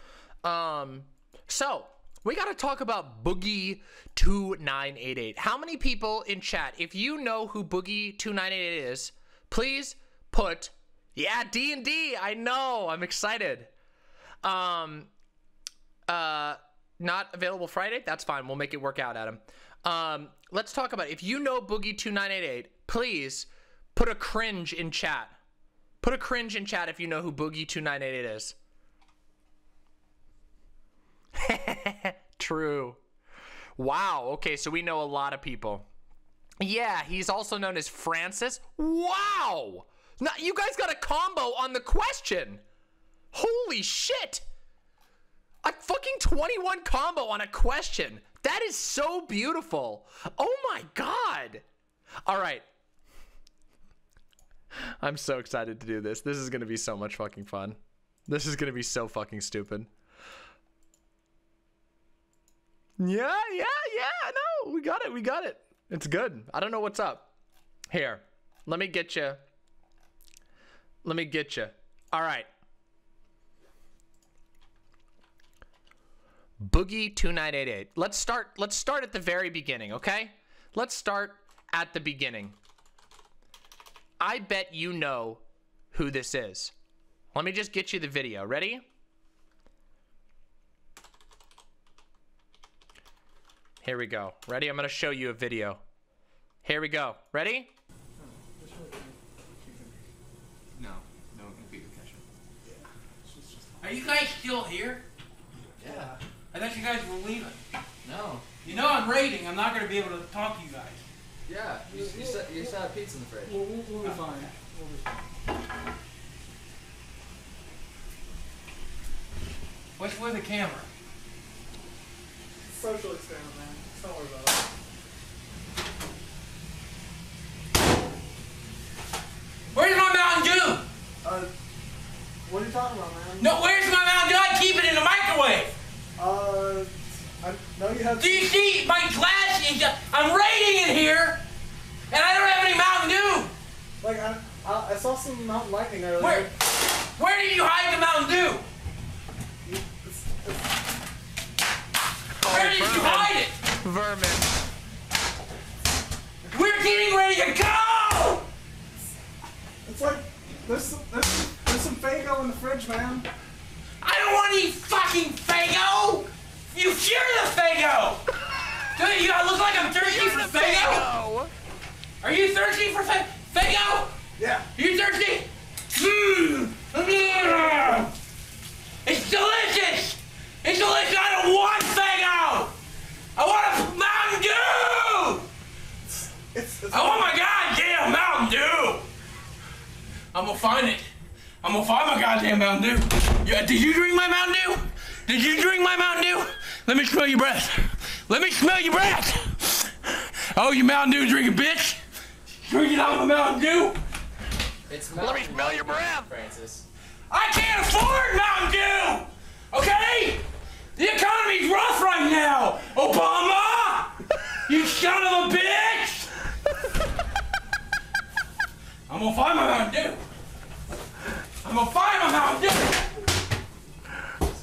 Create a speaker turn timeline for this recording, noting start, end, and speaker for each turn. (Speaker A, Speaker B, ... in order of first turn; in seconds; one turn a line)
Speaker A: 0.4-13.7
Speaker A: 14.4-15.1
Speaker A: 16.1-25.4
Speaker A: 26.0-28.6
Speaker A: 31.3-33.0
Speaker A: 33.8-35.9
Speaker A: 36.6-42.6
Speaker A: 43.3-44.4
Speaker A: 45.6-51.6
Speaker A: 52.2-52.6
Speaker A: 54.7-59.9
Speaker A: 63.0-67.3
Speaker A: 67.9-69.4
Speaker A: 71.0-72.5
Speaker A: 76.6-82.6
Speaker A: 84.2-86.7
Speaker A: 87.3-88.8
Speaker A: 93.8-95.8
Speaker A: 96.6-97.7
Speaker B: 98.2-100.0
Speaker C: 100.8-102.2
Speaker B: 102.7-103.9
Speaker D: 103.8-105.0
Speaker C: 105.8-106.2
Speaker B: 105.8-106.1
Speaker D: 106.5-107.6
Speaker C: 108.0-108.6
Speaker D: 108.6-111.0
Speaker C: 111.5-114.2
Speaker B: 111.9-112.8
Speaker B: 113.4-115.0
Speaker D: 120.0-120.9
Speaker B: 122.7-124.7
Speaker D: 129.7-130.8
Speaker B: 131.2-131.5
Speaker B: 132.4-133.5
Speaker D: 133.4-135.7
Speaker B: 136.2-138.5
Speaker D: 138.2-141.4
Speaker D: 142.1-143.5
Speaker B: 144.0-146.5
Speaker D: 146.2-148.7
Speaker B: 149.6-150.6
Speaker A: 152.4-154.6
Speaker D: 152.4-153.6
Speaker D: 156.5-158.4
Speaker B: 159.8-163.3
Speaker D: 164.0-168.2
Speaker D: 168.9-171.1
Speaker A: 170.0-171.5
Speaker D: 172.2-174.2
Speaker B: 174.4-174.7
Speaker D: 174.7-178.1
Speaker D: 179.0-182.7
Speaker D: 183.3-185.4
Speaker B: 186.5-187.3
Speaker D: 186.9-189.1
Speaker D: 190.3-191.1
Speaker D: 191.6-202.0
Speaker D: 202.6-204.0
Speaker C: 204.9-206.8
Speaker A: 205.2-206.3
Speaker D: 207.3-216.3
Speaker D: 219.1-220.2
Speaker D: 221.6-223.1